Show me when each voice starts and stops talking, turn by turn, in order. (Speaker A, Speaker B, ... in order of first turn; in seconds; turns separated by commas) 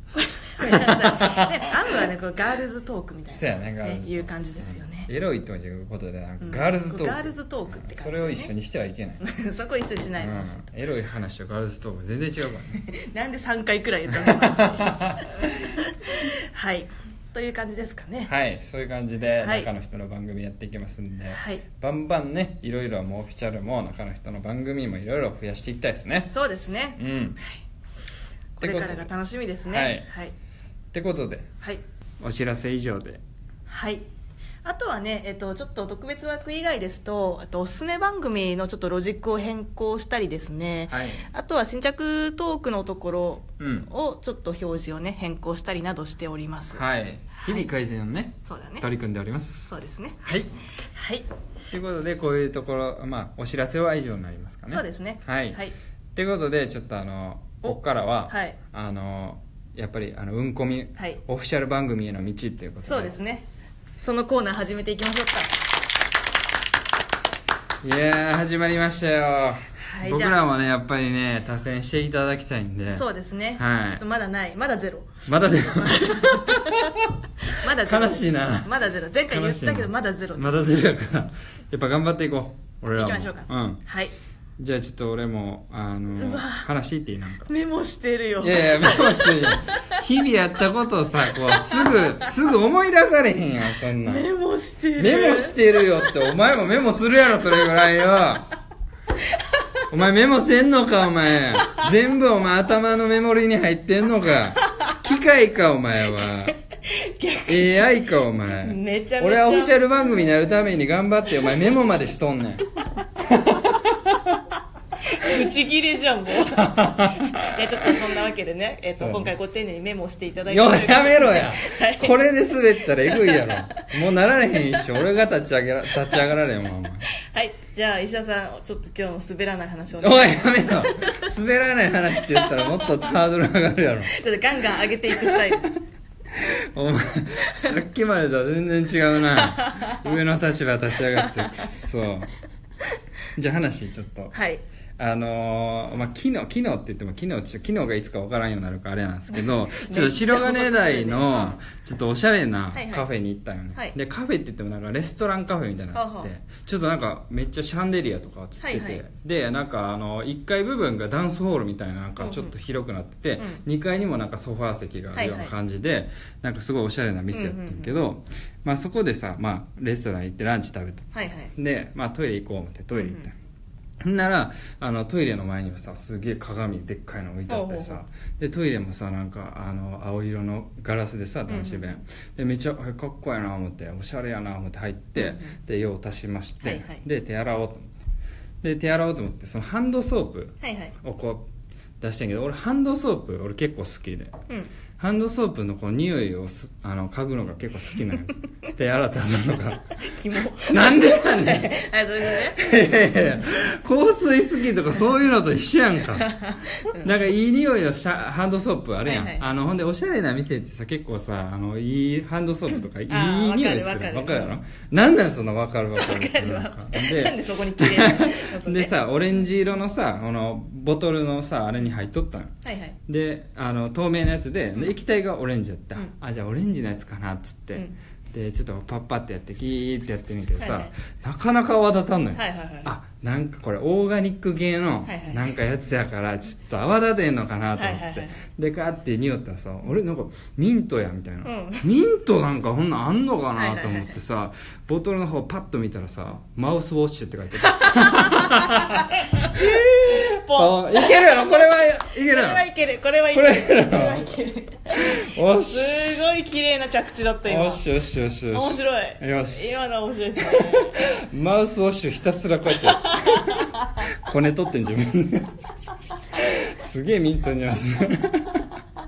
Speaker A: 0.1-5.1, Speaker B: 0.6-1.7, Speaker B: 3.3-9.2, Speaker A: 6.4-8.5, Speaker A: 9.2-10.6, Speaker B: 10.2-12.8, Speaker A: 12.9-18.3, Speaker B: 14.1-15.4, Speaker B: 18.3-26.3, Speaker A: 19.4-19.7, Speaker A: 21.3-21.6, Speaker A: 26.3-27.6, Speaker B: 27.0-27.4, Speaker A: 28.6-30.3, Speaker B: 28.6-29.1, Speaker B: 29.7-30.1, Speaker B: 30.9-31.5, Speaker B: 32.2-33.2, Speaker A: 33.7-34.1, Speaker A: 34.6-46.8, Speaker B: 40.9-41.3, Speaker B: 43.6-43.9, Speaker B: 46.8-49.6, Speaker A: 47.4-47.7, Speaker A: 48.5-48.9, Speaker A: 49.6-50.2, Speaker B: 50.2-50.5, Speaker A: 50.9-51.3, Speaker B: 51.7-55.6, Speaker A: 54.7-55.7, Speaker B: 56.1-63.1, Speaker A: 57.6-58.6, Speaker A: 62.9-65.6, Speaker B: 67.8-73.1, Speaker A: 69.8-70.4, Speaker A: 72.9-80.6, Speaker B: 73.6-74.0, Speaker B: 75.3-77.1, Speaker B: 77.7-78.7, Speaker B: 79.3-83.8, Speaker A: 83.0-84.1, Speaker B: 84.6-87.5, Speaker A: 86.2-86.7, Speaker A: 87.5-89.8, Speaker B: 88.4-94.3, Speaker A: 91.5-92.0, Speaker A: 94.0-96.1, Speaker B: 95.0-98.5, Speaker A: 99.3-99.8, Speaker B: 99.9-106.5, Speaker A: 106.8-107.9, Speaker B: 107.5-112.7, Speaker A: 108.5-109.8, Speaker B: 113.2-114.4, Speaker A: 115.0-122.2, Speaker B: 116.5-117.7, Speaker B: 118.9-119.3, Speaker B: 120.5-127.1, Speaker A: 122.8-125.0, Speaker A: 127.2-131.3, Speaker B: 130.0-134.1, Speaker A: 132.2-133.1, Speaker A: 134.1-135.8, Speaker B: 136.3-142.3, Speaker A: 139.3-140.1, Speaker A: 141.2-141.7, Speaker B: 143.4-144.3, Speaker A: 144.3-144.6, Speaker B: 145.0-173.4, Speaker A: 149.3-151.6, Speaker A: 152.7-153.1, Speaker A: 155.9-156.3, Speaker A: 158.6-159.0, Speaker A: 162.2-162.5, Speaker A: 163.4-163.6, Speaker A: 165.2-165.5, Speaker A: 167.3-168.0, Speaker A: 171.1-171.5, Speaker A: 172.9-173.3, Speaker B: 174.0-187.9, Speaker A: 177.5-178.0, Speaker A: 181.5-181.9, Speaker A: 185.2-185.6, Speaker A: 186.6-187.0, Speaker B: 188.6-191.5, Speaker A: 190.6-190.9, Speaker B: 192.0-194.3, Speaker B: 195.0-199.9, Speaker A: 200.0-202.6, Speaker B: 200.7-201.8, Speaker B: 202.3-206.3, Speaker A: 206.1-207.2, Speaker B: 206.9-222.5, Speaker A: 209.1-209.4, Speaker A: 212.7-214.6, Speaker A: 216.0-218.9, Speaker A: 222.6-223.0, Speaker B: 223.1-252.7, Speaker A: 230.6-230.9, Speaker A: 232.3-232.9, Speaker A: 235.1-235.5, Speaker A: 237.8-238.4, Speaker A: 241.4-241.9, Speaker A: 243.6-244.2, Speaker A: 247.6-257.8, Speaker B: 253.3-254.3, Speaker B: 255.0-256.4, Speaker B: 257.5-259.8, Speaker A: 258.5-261.0, Speaker B: 260.4-265.5, Speaker A: 263.1-263.9, Speaker B: 266.3-268.6